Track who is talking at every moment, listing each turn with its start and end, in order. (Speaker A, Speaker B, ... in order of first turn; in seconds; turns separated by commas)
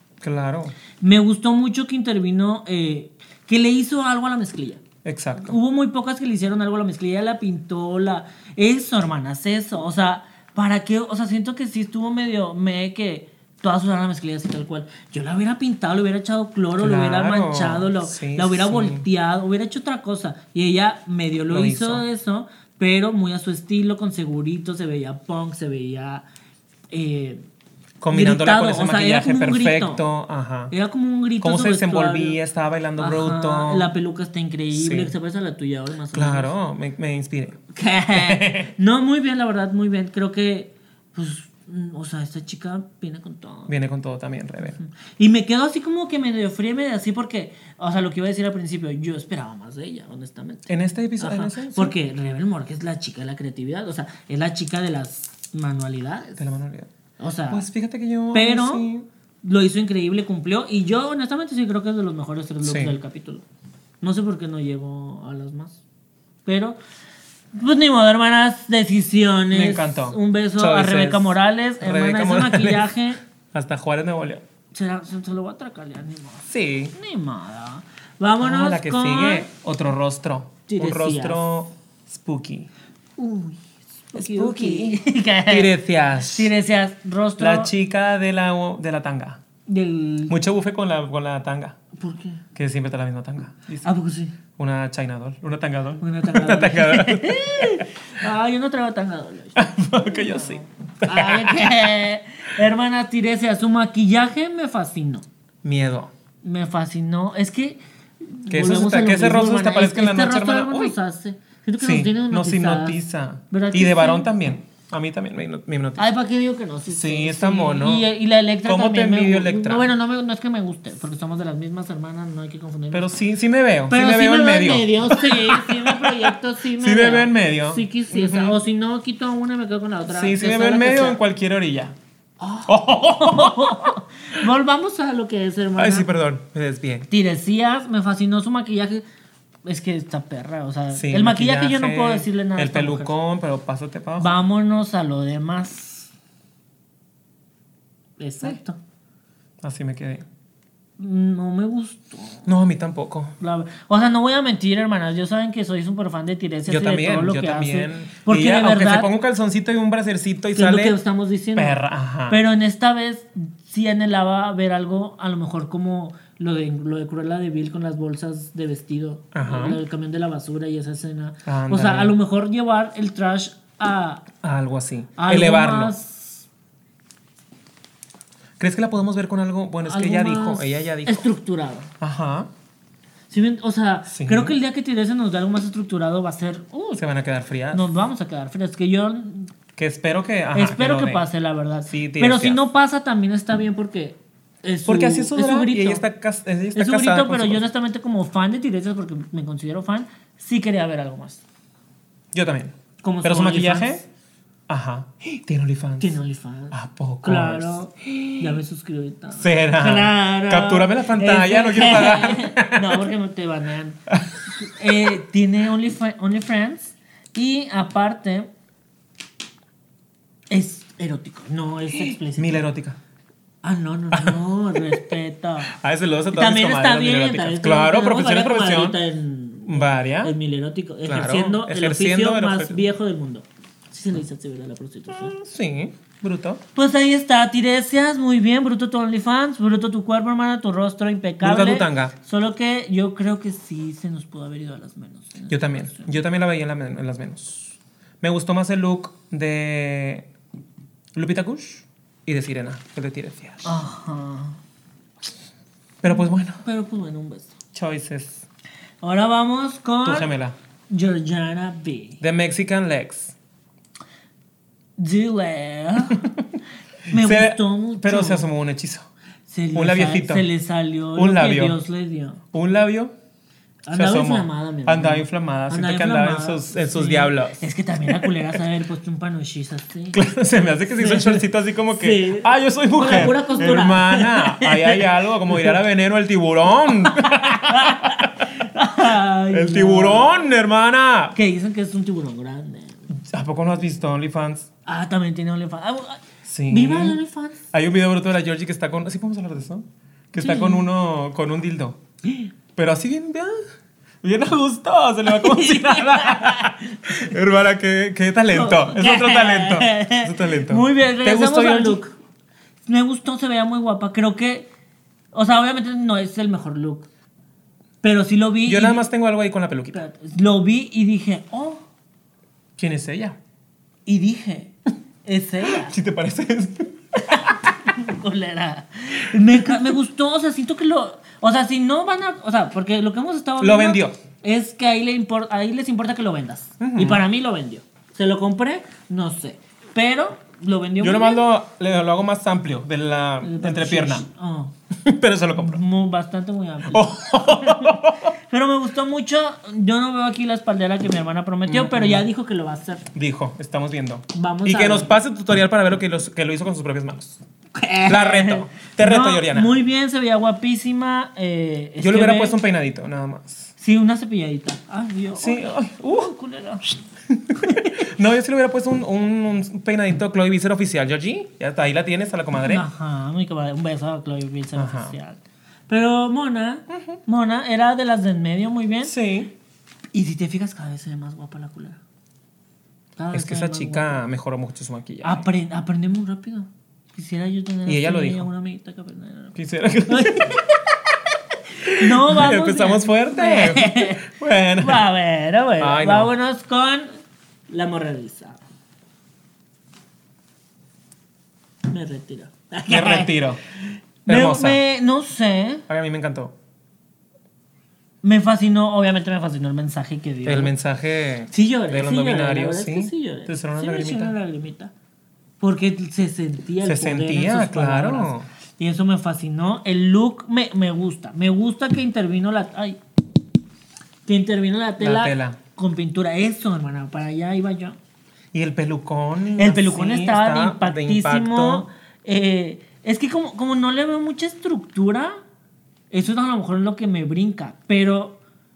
Speaker A: 0.2-0.7, Speaker B: 1.0-4.8, Speaker A: 5.0-5.6, Speaker B: 5.4-26.2, Speaker A: 16.8-19.1, Speaker A: 21.5-22.0, Speaker B: 26.9-27.4, Speaker A: 28.0-30.7, Speaker B: 28.1-30.0, Speaker B: 30.7-32.4, Speaker A: 31.4-33.9, Speaker B: 33.0-36.5, Speaker A: 34.7-35.1, Speaker A: 36.1-37.6, Speaker B: 37.7-43.7, Speaker A: 38.1-38.7, Speaker A: 43.7-44.8, Speaker B: 44.6-56.4, Speaker A: 50.7-51.9, Speaker A: 56.4-56.9, Speaker B: 57.2-57.6, Speaker A: 57.5-59.1, Speaker B: 58.3-58.9, Speaker B: 59.4-63.4, Speaker A: 62.6-63.0, Speaker B: 64.0-65.8, Speaker B: 66.4-66.8, Speaker B: 67.5-73.2, Speaker A: 69.5-72.9, Speaker A: 73.5-74.4, Speaker B: 74.7-79.5, Speaker A: 76.5-76.9, Speaker A: 78.4-82.7, Speaker B: 80.7-81.5, Speaker B: 83.2-87.7, Speaker A: 84.1-86.5, Speaker A: 87.4-89.4, Speaker B: 89.7-90.4, Speaker A: 90.3-91.8, Speaker B: 91.9-92.4, Speaker A: 92.5-93.9, Speaker B: 93.8-94.3, Speaker A: 94.5-97.9, Speaker B: 96.0-105.2, Speaker A: 99.5-101.9, Speaker A: 105.6-106.1, Speaker B: 106.4-114.3, Speaker A: 108.5-110.9, Speaker A: 111.8-116.0, Speaker B: 116.0-123.1, Speaker A: 116.9-118.1, Speaker A: 118.6-119.9, Speaker A: 122.9-128.6, Speaker B: 123.9-131.2, Speaker A: 130.1-131.9, Speaker B: 132.4-136.1, Speaker A: 132.7-134.0, Speaker A: 135.8-137.1, Speaker B: 137.1-139.0, Speaker B: 139.7-143.1, Speaker A: 140.9-144.3, Speaker B: 144.2-146.1, Speaker B: 148.2-148.8, Speaker A: 149.6-150.2, Speaker B: 151.0-152.5, Speaker A: 152.4-153.3, Speaker B: 153.4-159.1, Speaker A: 156.7-161.0, Speaker B: 160.5-174.2, Speaker A: 161.6-162.4, Speaker A: 169.3-169.8, Speaker A: 171.4-172.1, Speaker A: 174.4-175.9, Speaker B: 175.2-176.4, Speaker A: 178.6-181.3, Speaker B: 179.8-181.9, Speaker A: 182.0-182.5, Speaker B: 183.3-187.0, Speaker A: 184.1-184.6, Speaker A: 187.0-187.9, Speaker B: 187.7-189.5, Speaker A: 189.8-191.3, Speaker B: 190.5-196.0, Speaker A: 191.8-192.6, Speaker A: 194.8-197.7, Speaker B: 196.7-201.4, Speaker A: 202.3-204.0, Speaker B: 203.0-204.0, Speaker A: 204.7-206.2, Speaker B: 206.0-218.5, Speaker A: 206.7-208.6, Speaker A: 209.4-213.1, Speaker B: 220.5-222.6, Speaker A: 221.9-223.0, Speaker B: 223.6-225.8, Speaker A: 224.1-225.1, Speaker A: 225.7-229.0, Speaker B: 226.3-235.3, Speaker A: 229.7-230.3, Speaker A: 231.1-232.8, Speaker A: 235.1-236.6, Speaker B: 236.7-246.1, Speaker A: 241.4-242.1, Speaker A: 245.5-250.3, Speaker A: 251.1-253.8, Speaker B: 253.6-254.6, Speaker A: 256.0-256.6, Speaker B: 256.6-257.5, Speaker A: 257.7-258.4, Speaker B: 259.0-260.3, Speaker A: 260.0-260.6, Speaker B: 260.9-262.2, Speaker A: 262.2-263.4, Speaker B: 265.0-266.3, Speaker A: 266.1-266.4, Speaker B: 267.1-268.5, Speaker A: 267.1-269.1, Speaker B: 269.5-272.4, Speaker A: 269.7-270.5, Speaker A: 271.1-271.8, Speaker A: 272.5-273.1, Speaker B: 273.9-280.2, Speaker A: 273.9-278.6, Speaker A: 280.1-288.5, Speaker B: 280.9-285.7, Speaker B: 287.0-290.3, Speaker A: 289.5-291.4, Speaker B: 291.3-293.0, Speaker A: 293.1-294.7, Speaker B: 294.9-297.6, Speaker A: 296.4-297.2, Speaker A: 297.7-302.0, Speaker B: 300.4-300.8, Speaker B: 302.2-302.5, Speaker A: 302.8-303.6, Speaker A: 304.2-312.0, Speaker B: 305.3-307.2, Speaker B: 308.5-312.1, Speaker B: 312.9-314.7, Speaker B: 315.3-317.1, Speaker B: 318.0-319.0, Speaker A: 318.6-320.0, Speaker B: 319.9-321.8, Speaker A: 322.8-323.4, Speaker B: 324.1-324.7, Speaker B: 325.2-325.9, Speaker A: 325.6-327.7, Speaker B: 327.3-341.4, Speaker A: 333.6-334.2, Speaker A: 336.8-337.2, Speaker A: 341.0-344.2, Speaker B: 343.4-344.7, Speaker A: 344.9-345.8, Speaker B: 345.6-353.1, Speaker A: 346.9-348.3, Speaker A: 351.6-352.2, Speaker A: 353.1-357.4, Speaker B: 354.3-355.1, Speaker B: 357.7-362.6, Speaker A: 358.1-359.8, Speaker A: 362.0-363.7, Speaker B: 363.8-366.9, Speaker A: 365.4-366.3, Speaker A: 367.3-372.9, Speaker B: 367.6-368.0, Speaker B: 372.6-379.1, Speaker A: 374.8-375.1, Speaker A: 376.9-377.2, Speaker A: 379.0-379.5, Speaker B: 380.1-382.0, Speaker B: 383.2-384.2, Speaker A: 383.3-385.5, Speaker B: 385.2-389.6, Speaker A: 387.9-388.5, Speaker A: 389.5-390.6, Speaker B: 390.1-390.7, Speaker A: 391.8-395.0, Speaker B: 391.9-397.1, Speaker A: 395.8-396.3, Speaker B: 397.7-398.6, Speaker B: 401.9-403.4, Speaker A: 402.9-403.6, Speaker A: 404.2-404.8, Speaker B: 404.2-405.8, Speaker A: 405.9-406.5, Speaker B: 408.2-410.7, Speaker A: 410.4-414.3, Speaker B: 411.5-414.9, Speaker B: 415.6-423.0, Speaker A: 416.8-418.5, Speaker B: 424.2-428.0, Speaker A: 425.0-425.6, Speaker A: 428.5-431.9, Speaker B: 429.6-435.4, Speaker B: 436.1-438.4